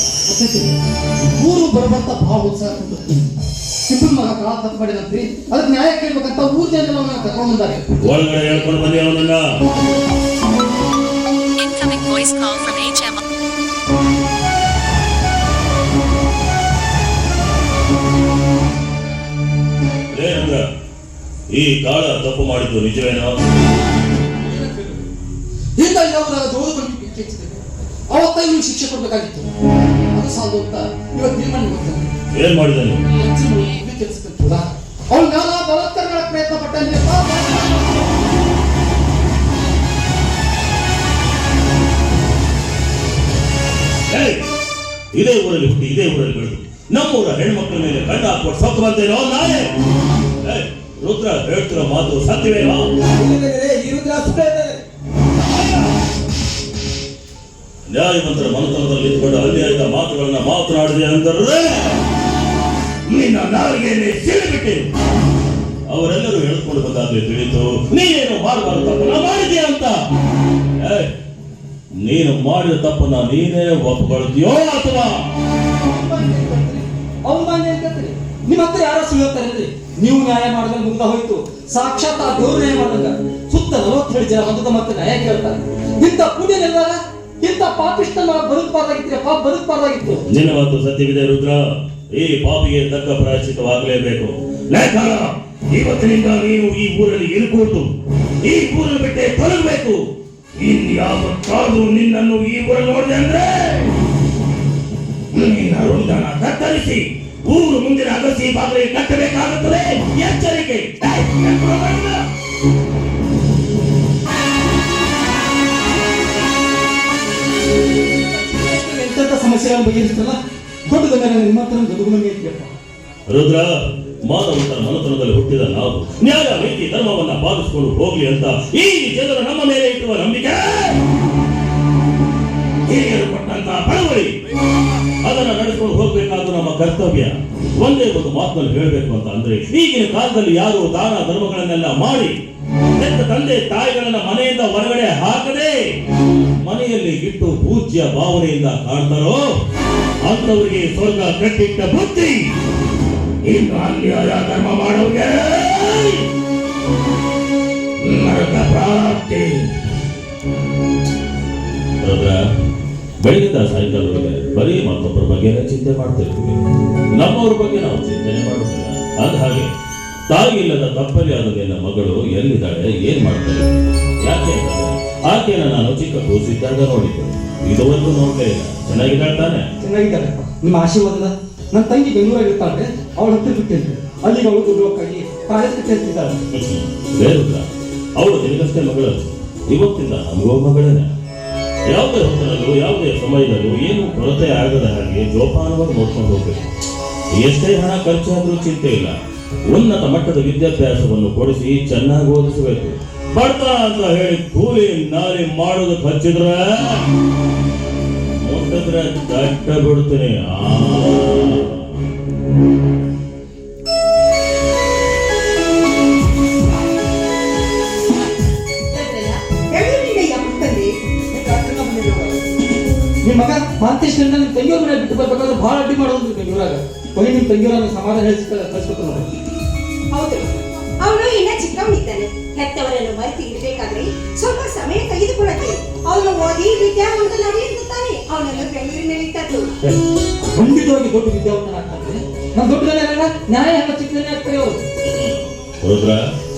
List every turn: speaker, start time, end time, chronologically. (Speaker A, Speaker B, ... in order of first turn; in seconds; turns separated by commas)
Speaker A: 0.3-3.2, Speaker A: 3.9-7.9, Speaker B: 8.0-9.5, Speaker B: 20.1-20.6, Speaker B: 21.5-23.4, Speaker A: 24.4-25.1, Speaker A: 25.8-29.5, Speaker A: 30.1-32.1, Speaker B: 32.4-33.1, Speaker A: 33.1-38.1, Speaker B: 44.1-44.4, Speaker B: 45.1-49.7, Speaker B: 50.4-53.0, Speaker A: 53.2-54.4, Speaker C: 53.4-54.8, Speaker B: 57.9-62.0, Speaker B: 63.1-64.9, Speaker B: 65.9-70.0, Speaker B: 70.8-71.1, Speaker B: 72.0-75.3, Speaker C: 75.9-90.2, Speaker B: 90.3-100.0, Speaker B: 100.6-104.0, Speaker B: 105.3-112.2, Speaker C: 118.5-122.7, Speaker B: 123.3-123.7, Speaker B: 124.3-131.0, Speaker B: 132.9-134.3, Speaker B: 135.2-142.3, Speaker B: 143.0-145.9, Speaker B: 146.6-149.5, Speaker B: 150.3-152.4, Speaker B: 153.4-156.2, Speaker B: 158.0-159.7, Speaker B: 162.0-162.4, Speaker B: 163.2-166.6, Speaker B: 167.1-169.7, Speaker B: 170.3-173.7, Speaker B: 174.2-179.6, Speaker C: 179.8-186.4, Speaker B: 186.5-187.7, Speaker B: 188.2-191.1, Speaker B: 191.9-196.7, Speaker B: 197.4-199.2, Speaker B: 199.7-207.1, Speaker B: 208.4-211.8, Speaker D: 218.9-220.9, Speaker C: 221.3-222.4, Speaker C: 223.2-229.3, Speaker D: 230.1-230.5, Speaker D: 231.0-239.7, Speaker C: 240.6-244.8, Speaker B: 245.1-246.2